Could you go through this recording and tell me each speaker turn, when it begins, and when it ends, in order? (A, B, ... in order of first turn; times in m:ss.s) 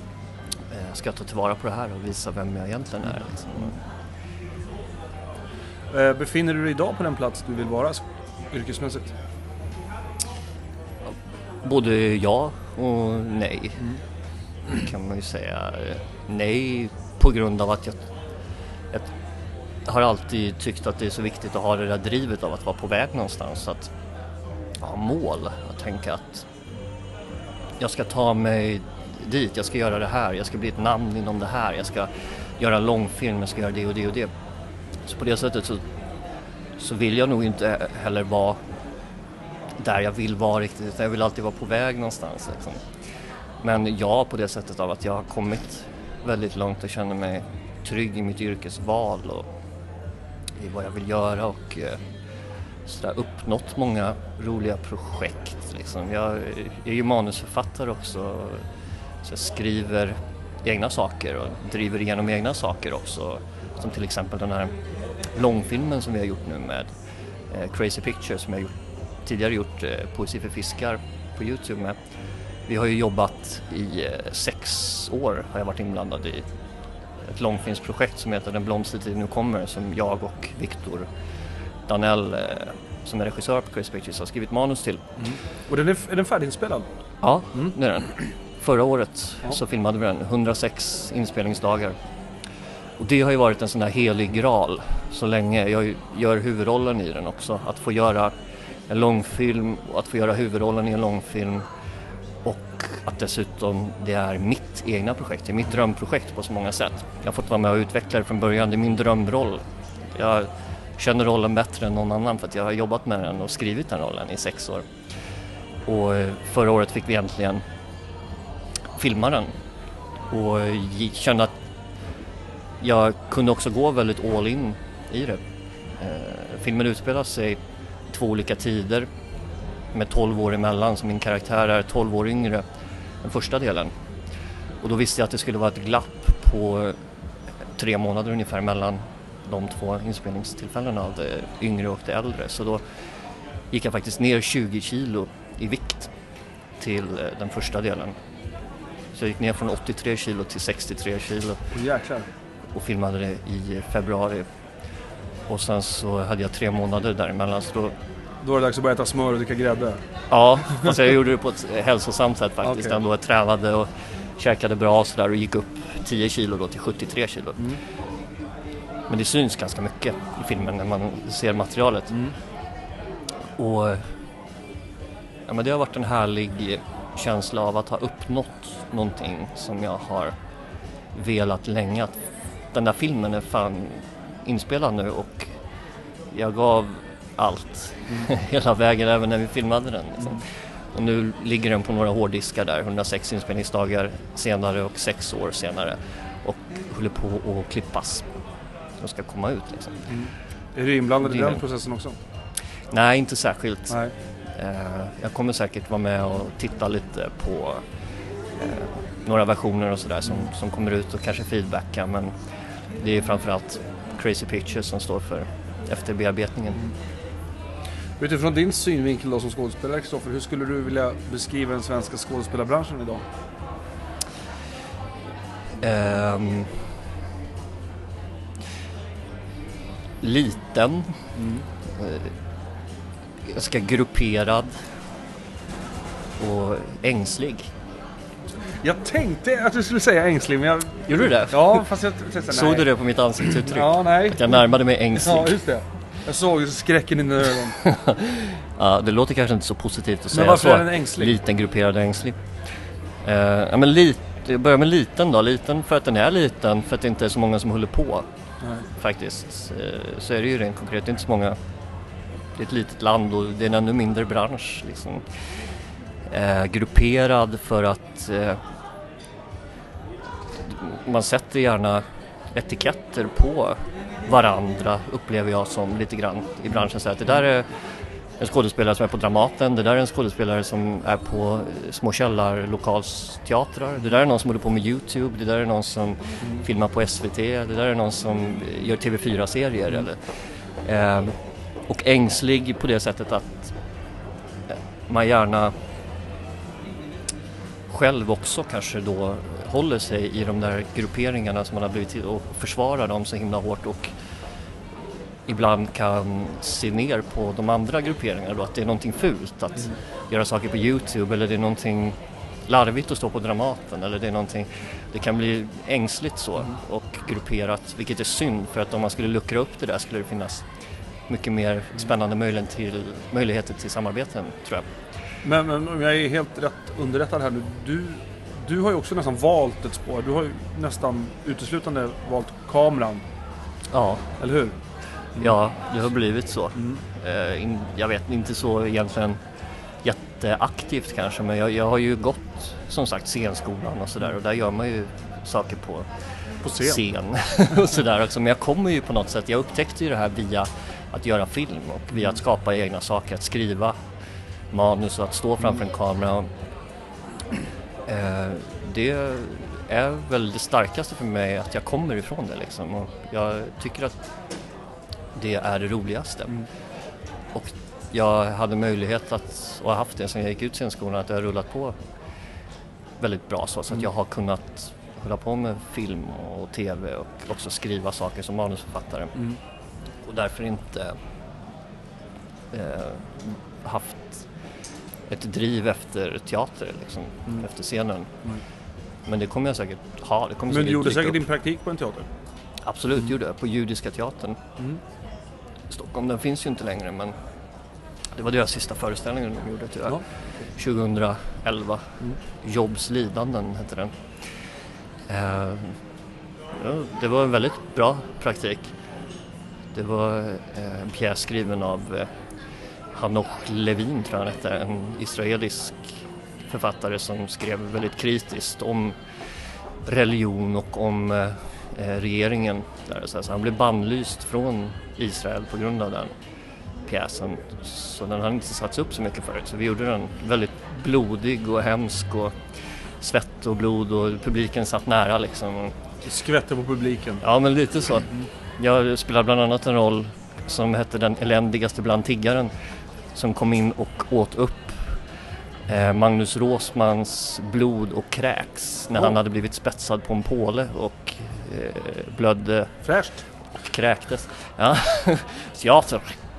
0:00.7-0:03.8 A
0:05.9-0:09.1 B
0:11.6-0:13.9 A
0:14.7-0:18.0 A
0:19.8-0:23.9 A
0:24.8-0:26.4 A
0:27.8-0:34.3 A
0:35.0-0:35.8 A
0:36.8-0:38.6 A
0:39.8-0:42.8 A
0:43.6-0:49.5 A
0:50.6-0:52.0 A
0:52.8-0:58.6 A
0:59.2-1:04.7 A
1:05.3-1:06.9 A
1:07.5-1:08.7 A
1:09.2-1:12.0 A
1:12.7-1:16.4 A
1:17.2-1:21.1 A
1:21.9-1:25.0 A
1:25.2-1:26.8 B
1:27.2-1:32.0 A
1:33.0-1:38.3 A
1:38.9-1:41.6 A
1:42.4-1:54.8 A
1:55.8-1:57.6 A
1:59.0-1:59.5 A
2:00.3-2:01.5 A
2:02.8-2:05.4 A
2:06.0-2:07.6 A
2:08.1-2:09.1 A
2:09.9-2:12.6 A
2:13.2-2:13.9 A
2:14.8-2:17.0 A
2:17.8-2:22.8 A
2:23.7-2:26.1 A
2:26.8-2:28.1 A
2:29.1-2:31.6 A
2:31.7-2:32.3 B
2:32.7-2:34.4 A
2:35.5-2:37.9 A
2:38.4-2:40.0 B
2:40.3-2:47.7 A
2:42.6-2:43.0 B
2:49.1-2:52.1 A
2:53.6-2:54.1 A
2:55.5-3:00.3 A
3:01.1-3:02.2 A
3:02.7-3:05.5 A
3:06.3-3:18.2 A
3:19.0-3:20.1 A
3:20.1-3:22.2 B
3:21.2-3:21.6 A
3:22.9-3:24.0 A
3:24.5-3:27.8 A
3:28.6-3:32.3 A
3:33.0-3:36.8 A
3:38.2-3:43.2 B
3:45.8-3:46.8 A
3:50.2-3:51.3 A
3:51.3-3:51.7 B
3:51.9-3:52.3 A
3:53.4-3:54.8 A
3:56.4-3:57.7 A
3:58.8-4:02.9 B
4:01.1-4:01.8 A
4:02.5-4:05.6 A
4:03.6-4:04.6 B
4:05.1-4:07.8 B
4:07.8-4:12.4 A
4:10.3-4:11.4 B
4:13.2-4:18.3 A
4:18.6-4:18.9 B
4:19.0-4:21.6 A
4:22.6-4:25.4 A
4:26.3-4:28.6 A
4:30.6-4:37.7 A
4:38.4-4:51.4 A
4:51.9-4:53.7 A
4:54.7-4:55.7 A
4:57.9-5:04.1 A
5:05.5-5:20.6 A
5:21.3-5:24.9 A
5:25.4-5:33.2 B
5:33.9-5:34.2 A
5:34.4-5:34.8 B
5:35.4-5:39.4 A
5:36.7-5:37.0 B
5:40.0-5:54.0 A
5:46.6-5:47.0 B
5:54.7-5:56.5 A
5:58.1-6:04.3 A
6:05.3-6:06.6 A
6:07.5-6:12.0 A
6:13.2-6:19.4 A
6:20.2-6:21.2 A
6:22.7-6:24.4 A
6:25.3-6:28.3 A
6:29.3-6:31.4 A
6:30.7-6:32.3 B
6:32.8-6:34.6 A
6:35.9-6:37.3 A
6:38.4-6:44.2 A
6:45.3-6:46.0 A
6:46.8-6:48.9 A
6:49.9-6:52.3 A
6:53.1-6:56.1 A
6:56.7-6:59.2 A
7:00.0-7:06.3 A
7:07.1-7:12.6 A
7:13.2-7:15.9 A
7:16.2-7:17.4 B
7:17.4-7:22.7 A
7:23.3-7:25.2 A
7:25.9-7:33.0 A
7:33.0-7:33.4 B
7:33.7-7:36.4 A